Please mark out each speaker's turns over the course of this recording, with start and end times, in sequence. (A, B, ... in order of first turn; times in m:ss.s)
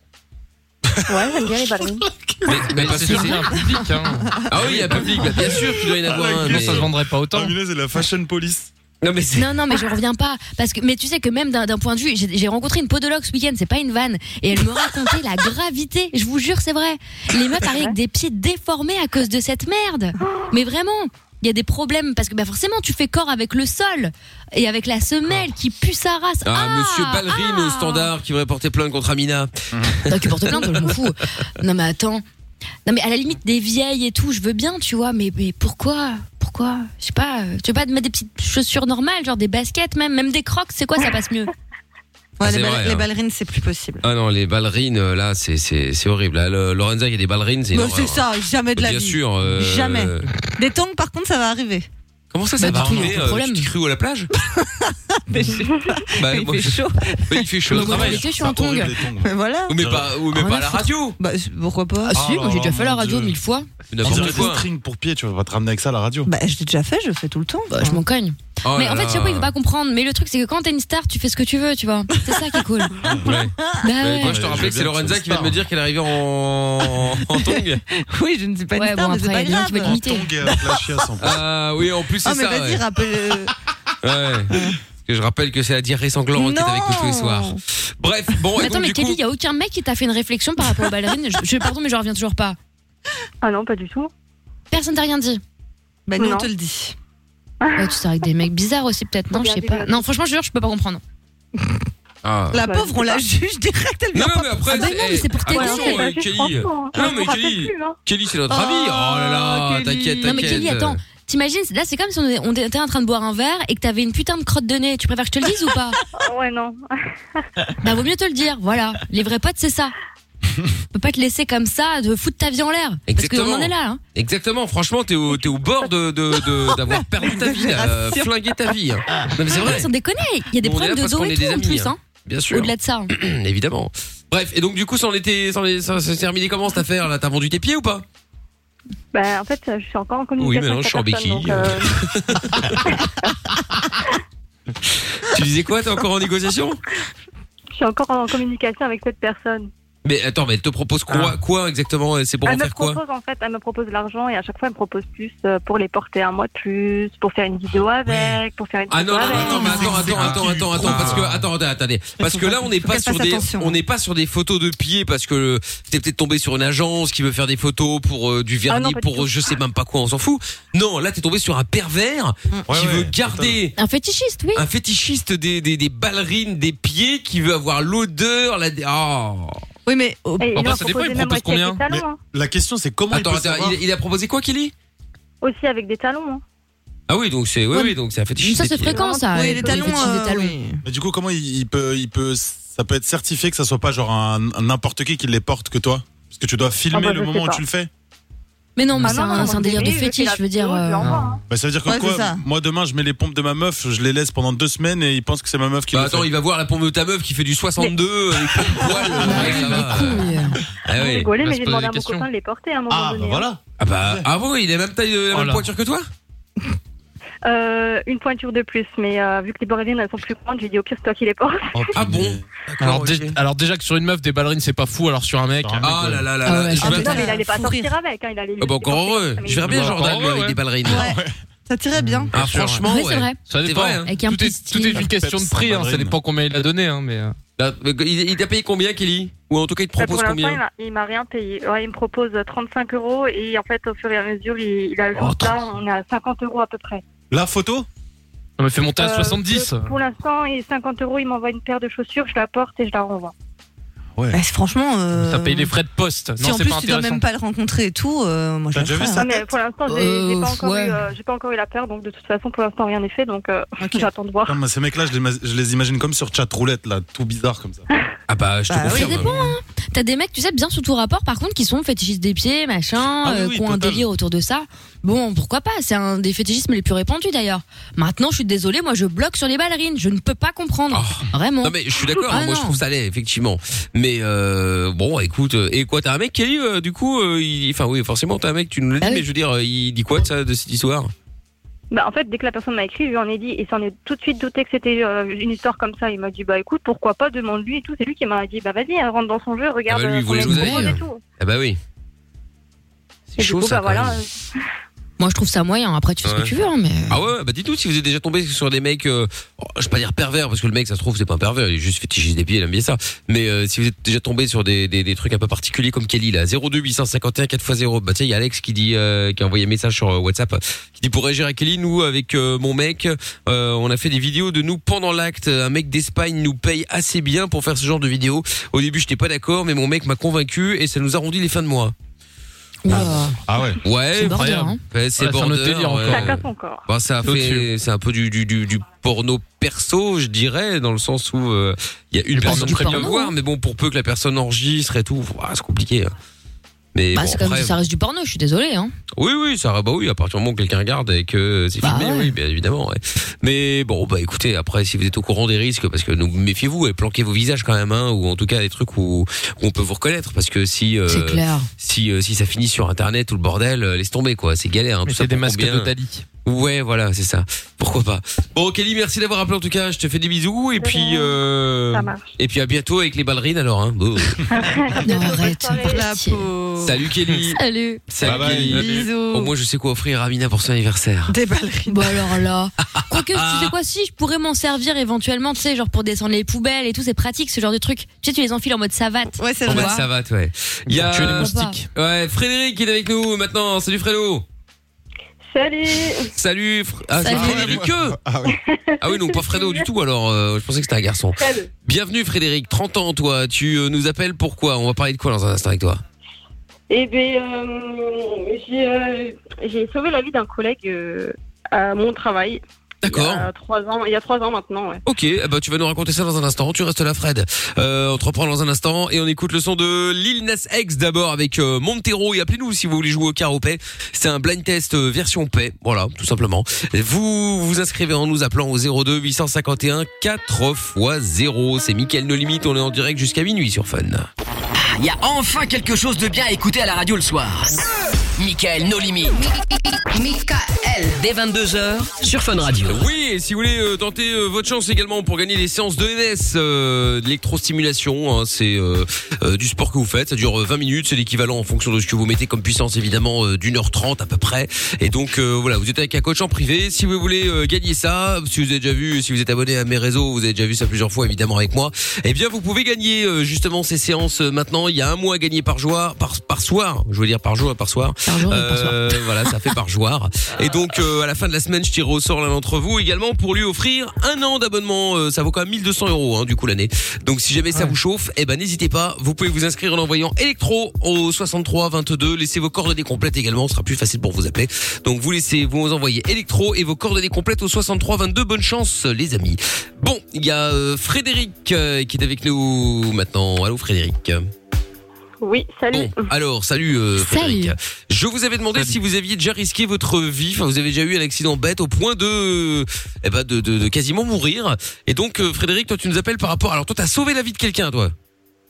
0:00.9-0:02.6 A
0:01.1-0:02.0 B
0:02.4-0:03.6 C
0:02.7-0:04.4 D
0:03.3-0:04.4 E
0:04.5-0:06.9 C
0:04.6-0:08.7 A
0:06.4-0:07.5 D
0:09.0-0:09.5 C
0:09.4-0:28.1 F
0:17.6-0:18.0 B
0:26.4-0:31.0 C
0:30.1-0:32.2 F
0:32.8-0:41.5 F
0:42.4-0:44.0 E
0:42.4-0:43.1 C
0:44.0-0:48.2 C
0:47.7-0:51.9 E
0:48.8-0:50.3 C
0:52.3-0:54.3 C
0:52.6-0:53.7 F
0:54.5-0:57.5 E
0:56.2-0:58.2 C
0:57.7-0:58.9 F
0:57.7-1:00.1 A
0:59.1-0:59.7 E
0:59.7-1:01.2 C
1:00.3-1:00.6 E
1:00.4-1:00.9 F
1:01.2-1:02.2 E
1:02.1-1:03.7 F
1:02.1-1:03.4 A
1:03.9-1:04.7 C
1:04.0-1:06.3 A
1:06.2-1:08.0 E
1:07.7-1:12.9 F
1:08.6-1:09.5 C
1:12.3-1:12.6 E
1:13.0-1:13.4 A
1:13.2-1:17.8 C
1:13.8-1:14.4 F
1:14.2-1:15.6 A
1:17.5-1:21.1 E
1:18.7-1:20.3 F
1:19.8-1:21.4 A
1:21.2-1:22.8 C
1:22.2-1:23.5 E
1:24.0-1:29.2 C
1:24.5-1:24.8 E
1:26.3-1:27.6 E
1:28.6-1:32.6 F
1:33.4-1:34.1 B
1:34.7-1:35.4 F
1:36.1-1:36.9 E
1:36.2-1:36.5 B
1:37.6-1:37.9 B
1:37.8-1:41.0 F
1:39.3-1:40.0 B
1:42.2-1:42.6 C
1:42.5-1:44.7 E
1:42.6-1:43.2 B
1:44.1-1:51.0 C
1:44.7-1:46.1 F
1:45.5-1:48.0 B
1:48.5-1:50.6 E
1:50.2-1:56.0 F
1:56.2-1:56.8 B
1:57.8-1:59.9 F
2:00.9-2:04.0 F
2:03.1-2:09.9 C
2:06.5-2:09.3 E
2:09.6-2:12.0 F
2:10.6-2:18.0 C
2:12.5-2:13.1 F
2:19.1-2:22.0 B
2:20.4-2:22.9 C
2:25.2-2:26.8 C
2:27.8-2:29.7 B
2:30.0-2:33.0 C
2:32.4-2:40.1 B
2:38.0-2:38.4 A
2:38.9-2:53.7 C
2:39.3-2:41.3 A
2:39.6-2:40.0 E
2:40.7-2:41.4 D
2:42.2-2:43.8 E
2:48.7-2:49.5 B
2:52.7-2:53.6 A
2:53.8-2:54.6 F
2:54.5-2:59.6 C
2:59.8-3:00.7 E
3:00.4-3:02.2 B
3:00.5-3:01.8 D
3:01.9-3:03.8 A
3:03.1-3:04.7 C
3:05.4-3:06.4 B
3:07.1-3:09.0 C
3:07.7-3:10.5 F
3:08.9-3:10.1 B
3:09.3-3:10.8 E
3:10.8-3:17.9 A
3:16.9-3:17.6 B
3:18.8-3:21.2 F
3:18.9-3:19.3 D
3:19.0-3:21.4 B
3:21.0-3:21.4 D
3:21.5-3:26.3 A
3:21.8-3:22.4 E
3:25.9-3:30.3 C
3:28.8-3:29.3 A
3:29.2-3:30.6 F
3:29.2-3:29.6 E
3:30.8-3:32.2 C
3:30.9-3:33.5 B
3:31.9-3:32.2 D
3:32.9-3:34.2 A
3:33.8-3:36.1 C
3:35.3-3:35.6 D
3:37.4-3:41.9 B
3:41.7-3:43.4 C
3:41.9-3:42.4 A
3:42.8-3:46.1 D
3:45.6-3:46.3 A
3:45.8-3:47.3 C
3:46.4-3:47.2 F
3:46.8-3:47.9 E
3:46.8-3:50.1 B
3:48.6-3:51.1 C
3:49.6-3:50.6 D
3:50.9-3:52.3 E
3:50.9-3:51.3 A
3:52.0-3:52.8 D
3:52.3-3:54.1 C
3:52.8-3:53.4 F
3:53.5-3:57.4 D
3:54.0-3:55.1 F
3:55.0-3:56.2 A
3:57.6-4:00.6 C
4:00.0-4:07.0 B
4:07.3-4:07.9 A
4:08.6-4:10.0 D
4:09.0-4:13.3 B
4:14.3-4:15.8 E
4:15.1-4:17.2 D
4:16.4-4:19.2 E
4:18.7-4:19.4 A
4:19.2-4:24.6 B
4:19.8-4:21.0 F
4:23.8-4:24.1 E
4:24.4-4:27.8 A
4:28.3-4:29.5 C
4:28.7-4:29.5 E
4:28.9-4:42.8 F
4:33.2-4:34.0 A
4:40.9-4:51.1 C
4:51.9-5:01.2 B
4:59.9-5:01.8 C
5:00.4-5:01.0 F
5:03.3-5:04.2 C
5:03.4-5:04.3 B
5:05.2-5:07.2 F
5:06.2-5:06.5 C
5:07.1-5:31.9 C
5:32.8-5:33.4 F
5:32.9-5:33.8 A
5:33.8-5:46.1 C
5:34.1-5:34.8 F
5:34.3-5:36.4 D
5:36.1-5:36.8 B
5:37.2-5:37.7 D
5:42.4-5:43.2 D
5:42.4-5:43.3 F
5:46.9-5:47.8 C
5:47.1-5:48.9 F
5:49.1-6:05.9 C
5:51.8-5:52.3 F
6:01.1-6:01.7 F
6:05.0-6:06.2 D
6:06.4-6:14.4 C
6:10.8-6:11.4 B
6:11.9-6:12.3 B
6:14.5-6:16.0 B
6:15.0-6:16.4 F
6:15.2-6:17.0 E
6:16.8-6:21.3 C
6:17.5-6:18.0 F
6:18.2-6:18.9 A
6:18.3-6:19.0 D
6:18.7-6:19.5 E
6:21.3-6:22.2 E
6:21.9-6:30.0 F
6:23.0-6:23.7 C
6:29.4-6:30.0 E
6:29.6-6:34.4 C
6:30.9-6:31.8 D
6:31.2-6:31.8 F
6:35.5-6:36.3 G
6:36.3-6:38.2 C
6:37.2-6:37.8 F
6:37.2-6:38.6 A
6:39.0-6:46.0 C
6:39.6-6:39.8 G
6:41.4-6:41.7 G
6:46.9-6:55.0 G
6:53.0-6:53.5 C
6:55.0-7:14.3 C
7:14.8-7:17.8 H
7:18.4-7:19.4 H
7:20.1-7:23.0 H
7:22.8-8:14.5 C
7:48.3-7:49.3 F
8:15.4-8:15.9 G
8:15.9-8:28.1 C
8:17.2-8:17.7 F